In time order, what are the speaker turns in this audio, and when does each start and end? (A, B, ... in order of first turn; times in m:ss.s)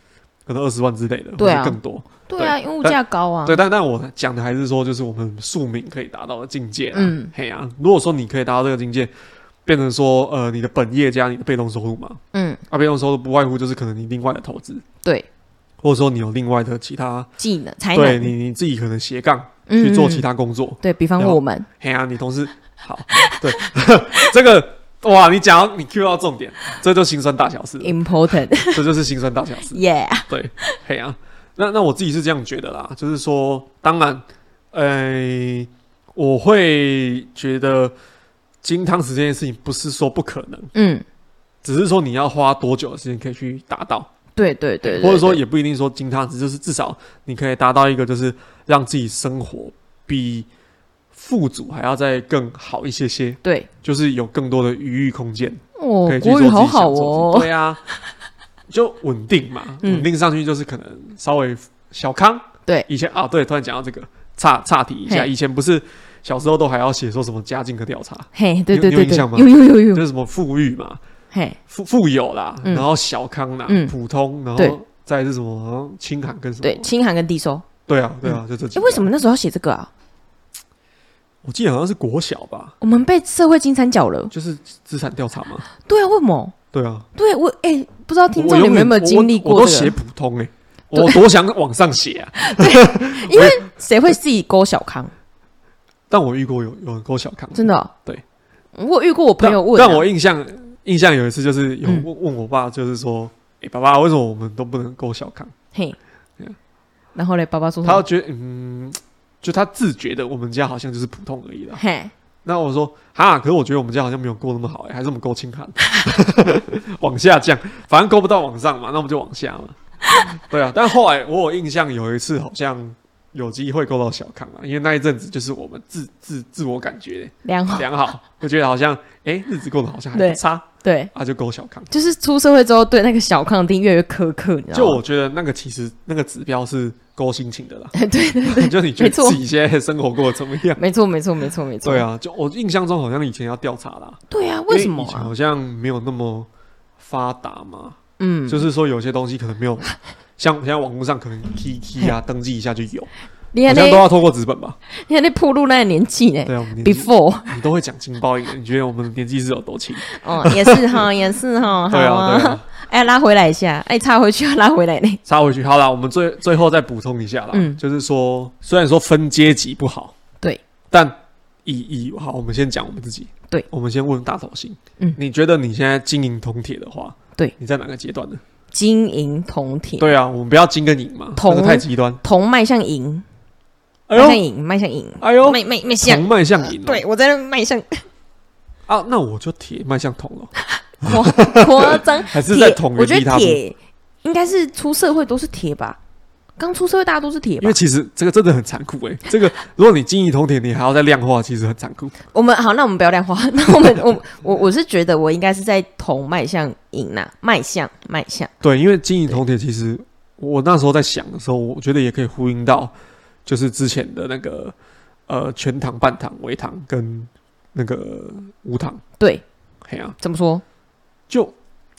0:00.5-0:09.1 A
0:01.4-0:03.6 B
0:06.9-0:07.3 B
0:09.6-0:14.8 A
0:12.3-0:12.6 B
0:15.8-0:17.3 A
0:17.4-0:18.3 B
0:17.9-0:37.9 A
0:19.7-0:20.2 B
0:20.8-0:21.7 B
0:23.1-0:24.3 B
0:27.8-0:28.8 B
0:29.7-0:30.8 B
0:38.6-0:40.7 A
0:40.7-0:41.0 B
0:41.6-0:44.1 A
0:44.4-0:45.4 B
0:44.8-0:50.5 A
0:51.1-0:57.8 A
0:53.4-0:53.7 B
0:55.8-0:57.5 B
0:58.7-1:11.0 A
0:59.8-1:00.1 B
1:08.3-1:10.0 B
1:11.3-1:11.6 B
1:11.7-1:16.9 A
1:13.7-1:13.9 B
1:16.6-1:17.6 B
1:17.9-1:19.1 A
1:18.2-1:19.9 B
1:21.4-1:22.8 A
1:22.8-1:24.3 B
1:24.3-1:25.7 A
1:25.8-1:26.5 B
1:26.7-1:27.1 A
1:27.2-1:29.9 B
1:28.3-1:33.6 A
1:32.4-1:35.1 B
1:36.1-1:38.2 A
1:37.5-1:37.9 B
1:38.7-1:40.1 B
1:39.4-1:45.5 A
1:47.1-1:48.0 B
1:47.8-1:51.8 A
1:51.8-1:52.1 B
1:52.4-2:11.9 A
2:00.1-2:00.4 B
2:07.4-2:07.9 B
2:10.1-2:11.1 B
2:11.9-2:15.0 B
2:14.7-2:17.9 A
2:17.9-2:19.4 B
2:18.4-2:20.8 A
2:20.8-2:22.0 B
2:21.8-2:29.8 A
2:24.3-2:25.3 B
2:28.2-2:28.6 B
2:30.4-2:33.1 A
2:33.5-2:34.0 B
2:33.6-2:34.8 A
2:34.9-2:37.5 B
2:36.4-2:41.0 A
2:40.0-2:45.2 B
2:41.9-2:42.6 A
2:45.2-2:50.1 A
2:47.5-2:47.8 B
2:50.9-2:58.4 A
2:58.7-3:00.1 B
3:00.0-3:02.2 A
3:01.4-3:03.2 B
3:04.1-3:04.4 A
3:04.1-3:08.0 B
3:05.2-3:07.0 A
3:08.9-3:10.5 A
3:10.9-3:16.0 B
3:11.0-3:13.6 A
3:16.6-3:17.8 B
3:17.6-3:22.1 A
3:22.3-3:28.5 B
3:28.6-3:32.9 A
3:33.4-3:34.7 A
3:35.3-3:39.0 A
3:39.2-3:39.4 B
3:39.8-3:40.2 A
3:40.2-3:40.6 B
3:41.3-3:41.5 A